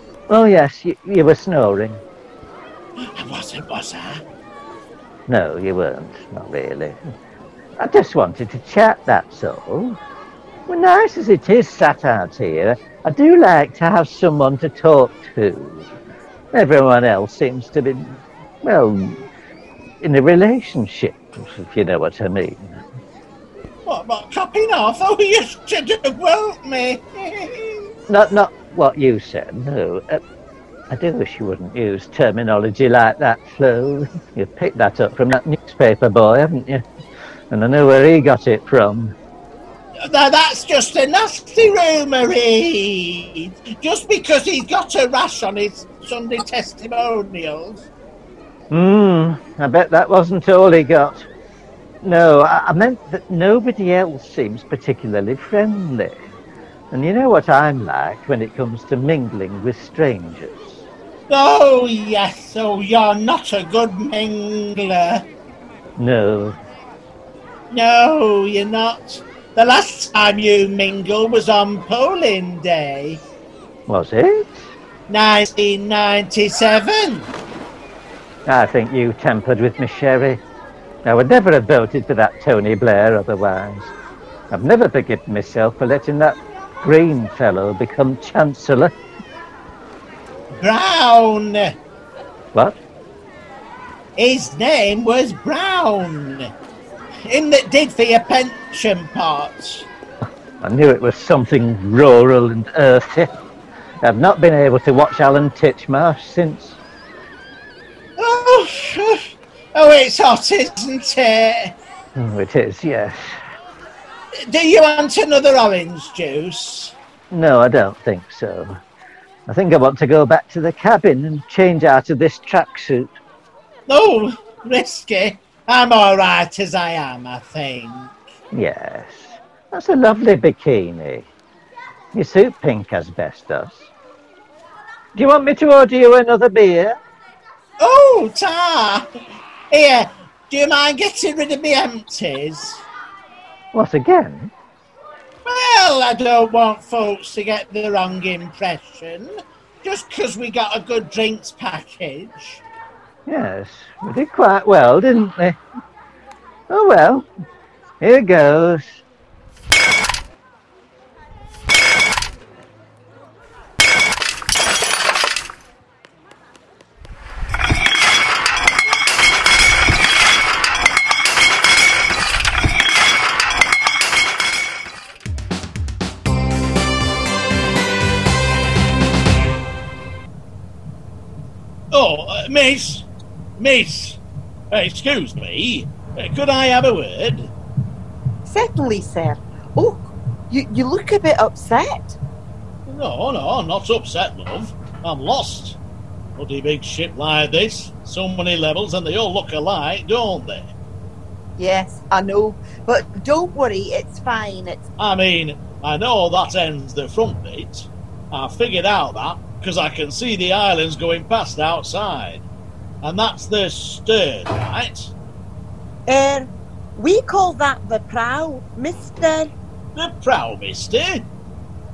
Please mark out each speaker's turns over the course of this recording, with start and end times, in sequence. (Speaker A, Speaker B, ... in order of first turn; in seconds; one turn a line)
Speaker A: 0.3-2.0
Speaker B: 3.1-4.2
Speaker A: 5.3-7.0
Speaker A: 7.8-10.0
Speaker A: 10.7-15.9
Speaker A: 16.5-19.2
Speaker A: 20.0-22.8
Speaker B: 23.9-27.9
Speaker A: 28.1-30.2
Speaker A: 30.9-36.8
Speaker A: 37.5-39.1
Speaker B: 40.1-47.9
Speaker A: 48.7-51.2
Speaker A: 52.0-56.2
Speaker A: 56.9-60.8
Speaker B: 61.3-65.2
Speaker A: 66.0-66.6
Speaker B: 67.7-73.2
Speaker A: 73.9-74.7
Speaker B: 75.1-77.3
Speaker A: 78.5-80.4
Speaker A: 81.0-83.9
Speaker A: 84.5-88.9
Speaker B: 90.5-91.7
Speaker B: 94.2-96.5
Speaker B: 97.3-99.8
Speaker A: 100.6-103.3
Speaker A: 104.0-106.8
Speaker B: 108.2-109.2
Speaker B: 109.8-111.7
Speaker A: 112.2-113.3
Speaker B: 114.5-116.9
Speaker A: 117.3-118.8
Speaker A: 119.5-123.1
Speaker B: 123.9-128.1
Speaker A: 128.5-131.3
Speaker A: 132.1-133.9
Speaker A: 135.1-137.0
Speaker B: 137.8-139.0
Speaker B: 139.7-142.8
Speaker A: 143.7-144.5
Speaker B: 145.4-149.3
Speaker B: 149.8-152.6
Speaker A: 153.3-155.6
Speaker A: 156.7-157.3
Speaker A: 158.0-159.0
Speaker B: 181.9-183.1
Speaker B: 183.6-184.2
Speaker B: 184.7-187.5
Speaker C: 188.4-192.2
Speaker B: 192.9-195.8
Speaker B: 196.4-200.7
Speaker C: 201.6-204.8
Speaker B: 205.0-212.4
Speaker B: 213.0-215.1
Speaker C: 216.1-219.5
Speaker B: 219.9-221.2